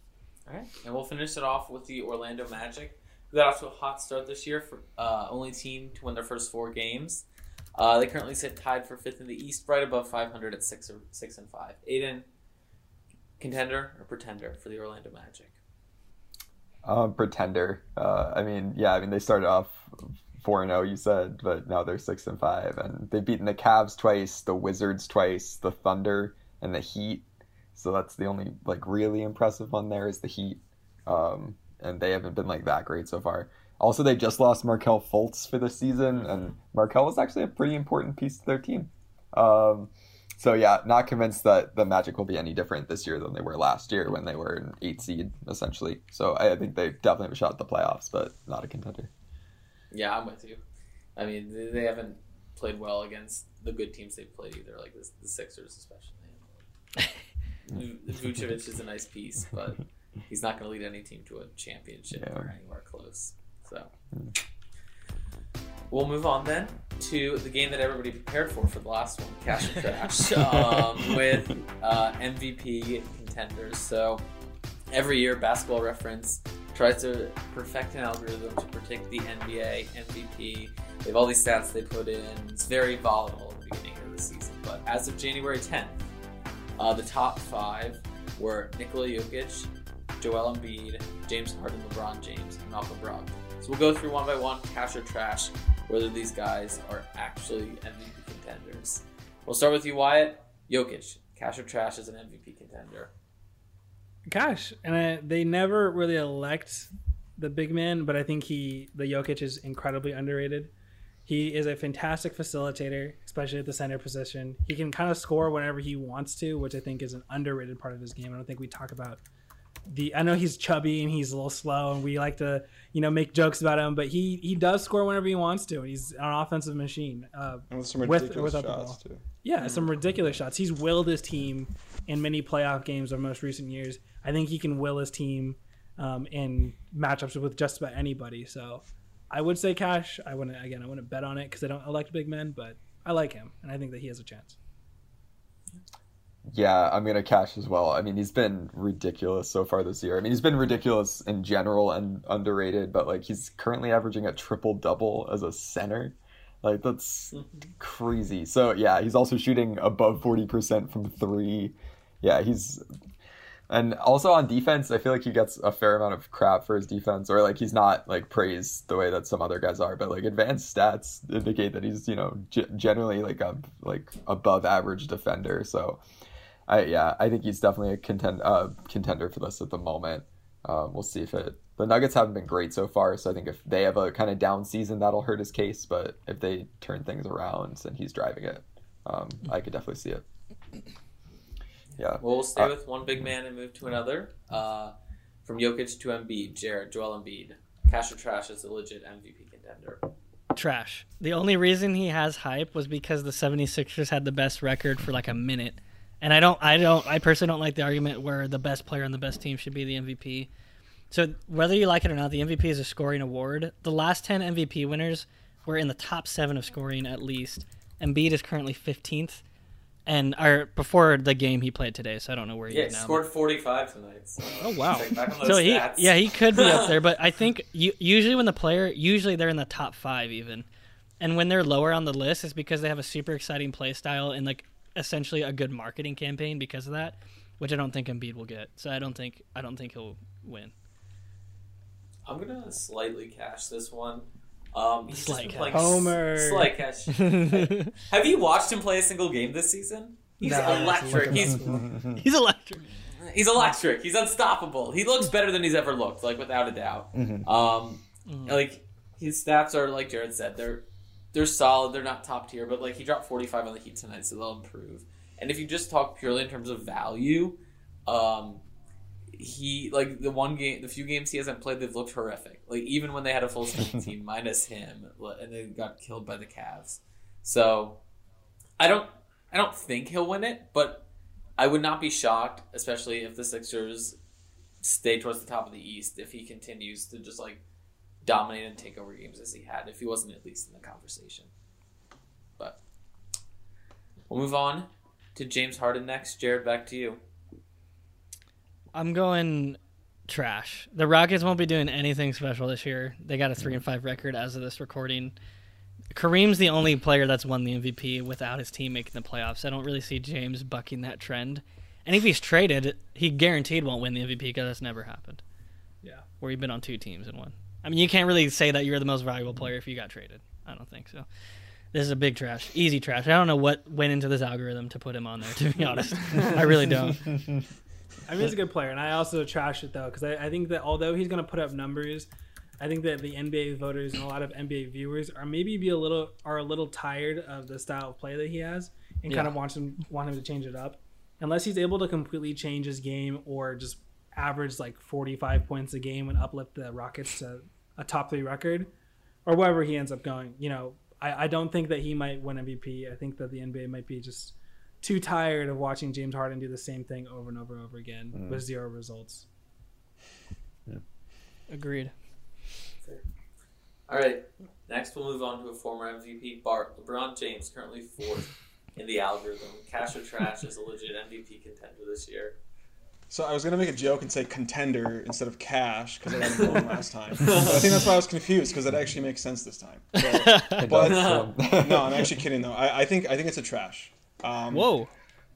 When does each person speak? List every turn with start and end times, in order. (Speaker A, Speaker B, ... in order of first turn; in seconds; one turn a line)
Speaker A: 0.5-12.3
Speaker A: 13.4-15.6
Speaker B: 16.9-49.1
Speaker A: 49.9-50.6
Speaker A: 51.2-56.7
Speaker A: 57.7-63.9
Speaker B: 62.2-62.5
Speaker A: 65.9-74.2
Speaker B: 70.5-70.8
Speaker A: 74.9-86.0
Speaker A: 86.8-103.1
Speaker C: 104.3-110.7
Speaker C: 111.3-119.2
Speaker C: 119.9-144.6
Speaker D: 127.7-129.2
Speaker B: 146.5-162.8
Speaker A: 157.3-157.7
Speaker B: 163.7-176.0
Speaker B: 176.7-190.2
Speaker B: 192.0-192.7
Speaker A: 192.2-194.9
Speaker A: 195.4-200.1
Speaker E: 200.6-210.5
Speaker E: 211.1-219.4
Speaker E: 220.1-223.2
Speaker A: 222.7-226.9
Speaker E: 224.6-230.7
Speaker E: 231.2-240.7
Speaker A: 242.2-251.7
Speaker E: 245.1-245.9
Speaker C: 245.7-246.7
Speaker E: 247.1-248.0
Speaker C: 250.4-251.9
Speaker E: 250.6-252.9
Speaker B: 251.6-252.2
Speaker A: 253.2-268.6
Speaker B: 257.1-257.5
Speaker E: 258.3-258.6
Speaker A: 269.4-278.0
Speaker A: 278.8-284.2
Speaker A: 284.8-287.6
Speaker A: 288.2-291.5
Speaker A: 294.3-297.2
Speaker E: 298.9-305.4
Speaker E: 306.1-315.4
Speaker E: 316.4-321.3
Speaker E: 321.9-327.5
Speaker C: 328.3-332.3
Speaker C: 332.8-348.9
Speaker E: 339.3-339.5
Speaker C: 349.5-359.5
Speaker B: 358.3-358.6
Speaker E: 361.7-362.1
Speaker A: 364.1-372.6
Speaker D: 373.3-385.0
Speaker A: 377.4-378.1
Speaker E: 380.2-380.9
Speaker B: 380.8-382.4
Speaker A: 381.0-381.5
Speaker E: 384.7-385.1